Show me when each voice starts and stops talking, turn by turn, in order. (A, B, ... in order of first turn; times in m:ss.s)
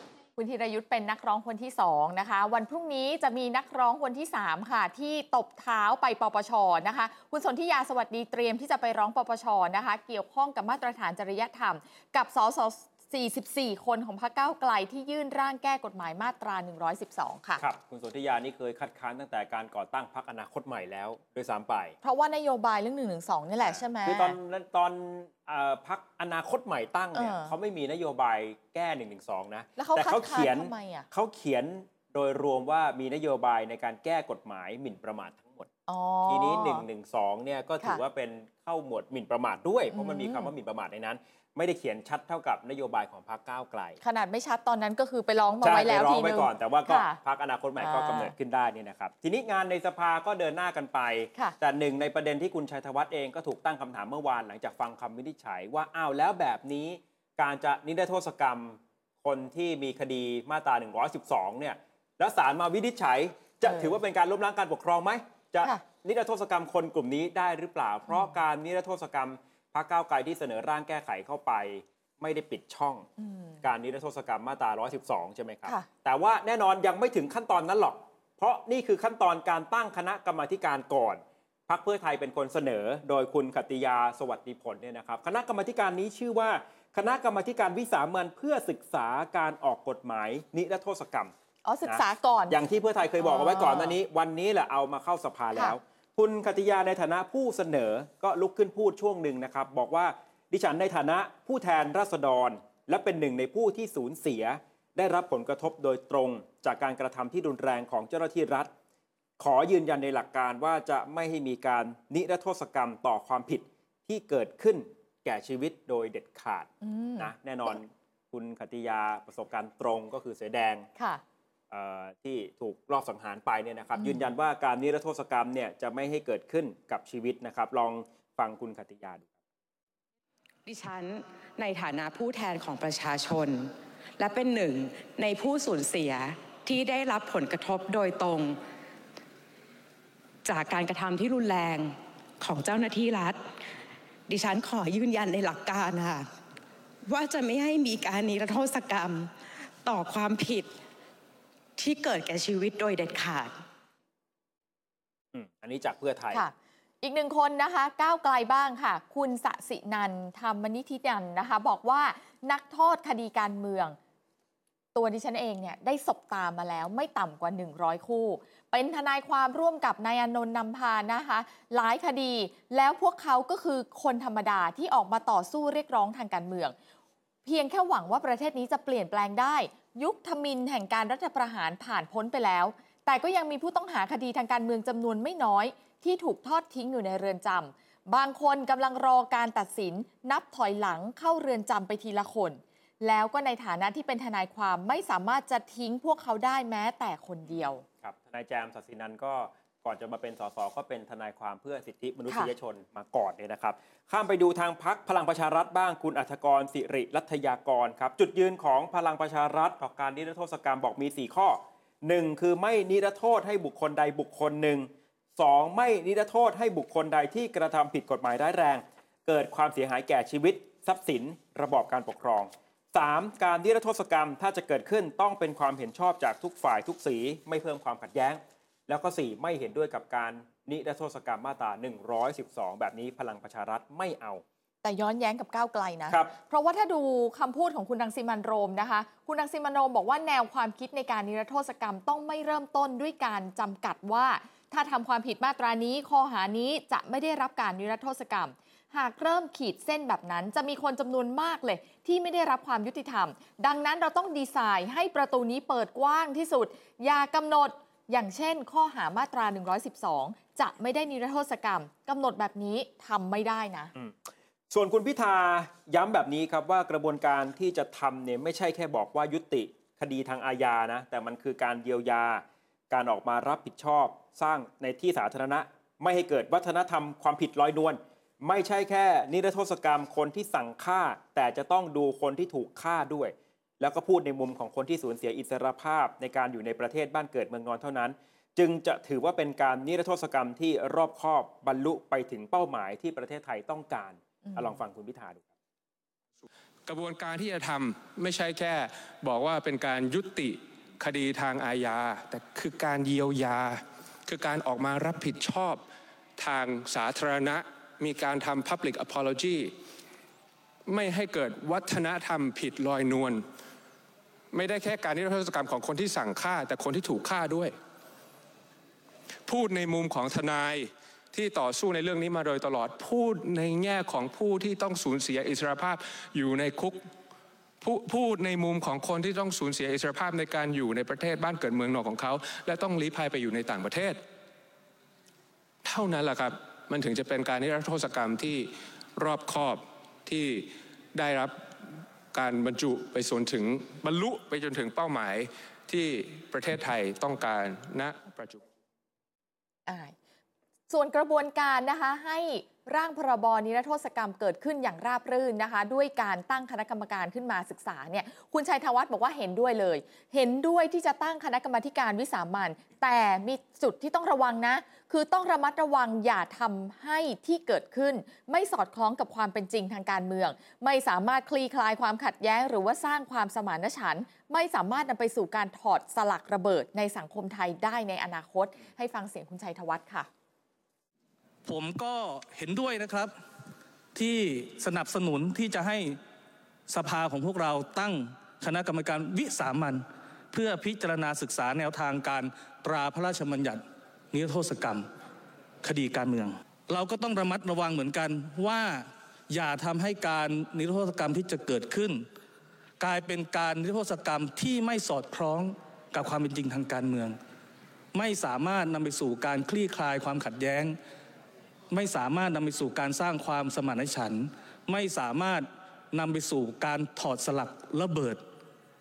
0:00.4-0:17.6 A
0:17.6-0:22.0 B
0:22.0-0:24.4 A
0:23.6-0:35.7 B
0:27.2-0:27.5 A
0:29.8-0:31.1 A
0:35.9-0:36.8 A
0:36.3-0:44.0 B
0:39.9-0:40.5 A
0:44.0-0:47.2 A
0:45.6-1:13.1 B
0:47.8-0:48.3 A
1:03.6-1:04.0 A
1:13.2-1:13.6 A
1:13.6-1:31.3 B
1:31.6-1:32.6 A
1:31.8-1:48.7 B
1:33.2-1:34.0 A
1:49.4-2:00.9 B
1:56.8-1:57.8 A
2:01.7-2:09.3 B
2:04.0-2:04.2 A
2:10.7-2:18.6 C
2:20.4-2:23.5 C
2:24.3-2:26.3 C
2:27.1-2:29.3 C
2:29.8-2:30.7 C
2:31.8-2:33.6 C
2:35.3-2:36.4 B
2:36.3-2:44.0 A
2:45.0-2:56.8 A
2:57.5-3:17.8 A
3:17.5-3:54.4 B
3:54.8-4:23.9 A
4:24.7-4:55.5 B
4:56.9-5:05.8 D
5:06.4-5:09.8 D
5:10.9-5:13.4 D
5:14.5-5:17.8 D
5:19.5-5:27.0 D
5:27.8-5:34.2 D
5:35.8-5:41.7 D
5:42.3-5:48.6 D
5:49.9-5:50.1 A
5:50.9-6:20.3 A
6:21.7-6:23.4 E
6:24.2-6:26.2 E
6:26.9-6:35.1 E
6:35.8-6:42.3 E
6:43.0-6:47.4 E
6:48.1-6:51.0 E
6:51.9-6:58.4 E